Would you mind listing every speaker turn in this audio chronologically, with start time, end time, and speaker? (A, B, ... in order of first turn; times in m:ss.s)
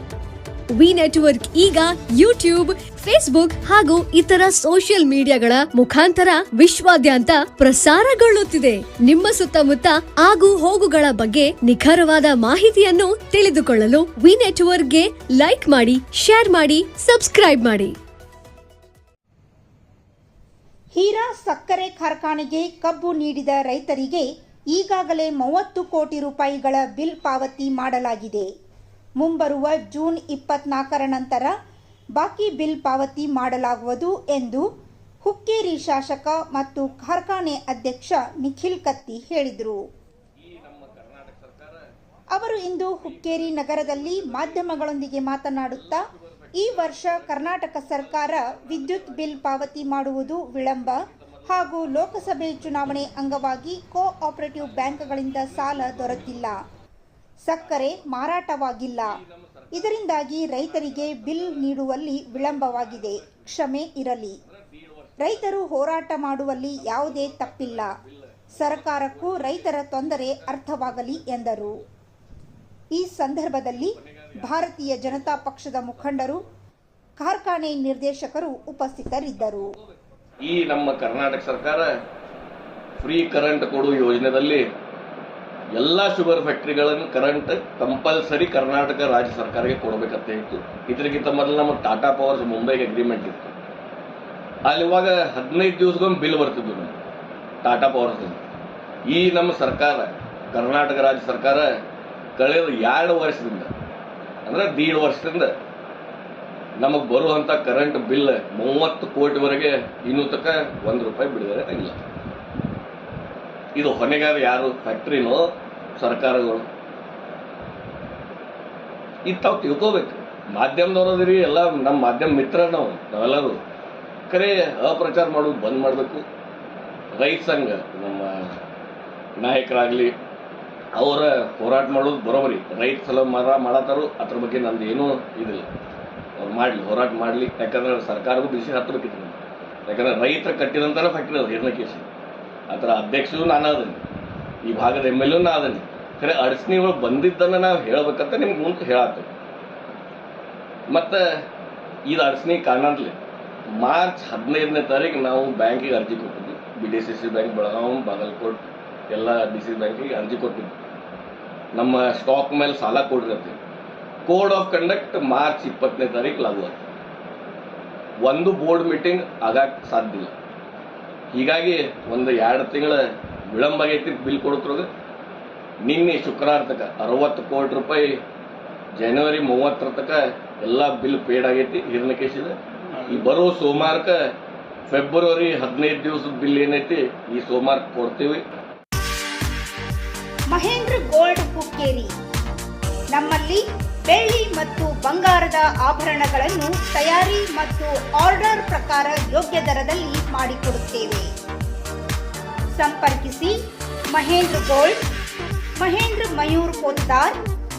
0:00.8-0:18.0 A
0:20.9-0:28.5 B
0:29.2-0:31.5 B
0:32.2-0:34.6 B
0:35.2-0:39.8 B
0:40.4-0:41.9 C
0:42.3-0:56.6 B
0:43.0-0:53.5 C
0:54.5-0:56.5 C
0:57.4-0:59.2 B
0:57.6-0:58.2 C
0:59.0-1:03.8 C
0:59.7-1:04.4 B
1:04.4-1:05.6 C
1:05.2-1:08.0 B
1:06.7-1:11.8 C
1:08.5-1:11.8 B
1:12.9-1:16.4 B
1:13.7-1:16.5 C
1:17.2-1:19.7 B
1:19.4-1:21.9 C
1:23.0-1:24.6 C
1:25.7-1:33.5 C
1:34.6-1:37.0 C
1:37.6-1:38.4 C
1:39.1-1:41.8 C
1:42.4-1:43.7 C
1:44.4-1:45.5 C
1:46.8-1:52.0 C
1:53.8-1:56.7 C
1:59.2-2:03.6 C
2:04.3-2:06.2 C
2:07.1-2:08.6 C
2:09.4-2:10.1 C
2:11.0-2:15.7 C
2:16.4-2:22.1 C
2:22.7-2:24.0 C
2:24.6-2:29.3 C
2:30.9-2:31.4 C
2:32.1-2:33.2 C
2:33.8-2:40.8 C
2:41.7-2:43.6 C
2:44.2-2:46.8 C
2:48.2-2:50.3 C
2:51.3-2:54.9 C
2:55.8-2:58.2 C
2:59.0-3:04.2 C
3:04.9-3:08.4 C
3:10.5-3:12.1 B
3:13.1-3:21.3 B
3:22.7-3:23.5 B
3:24.1-3:25.0 B
3:25.8-3:27.4 B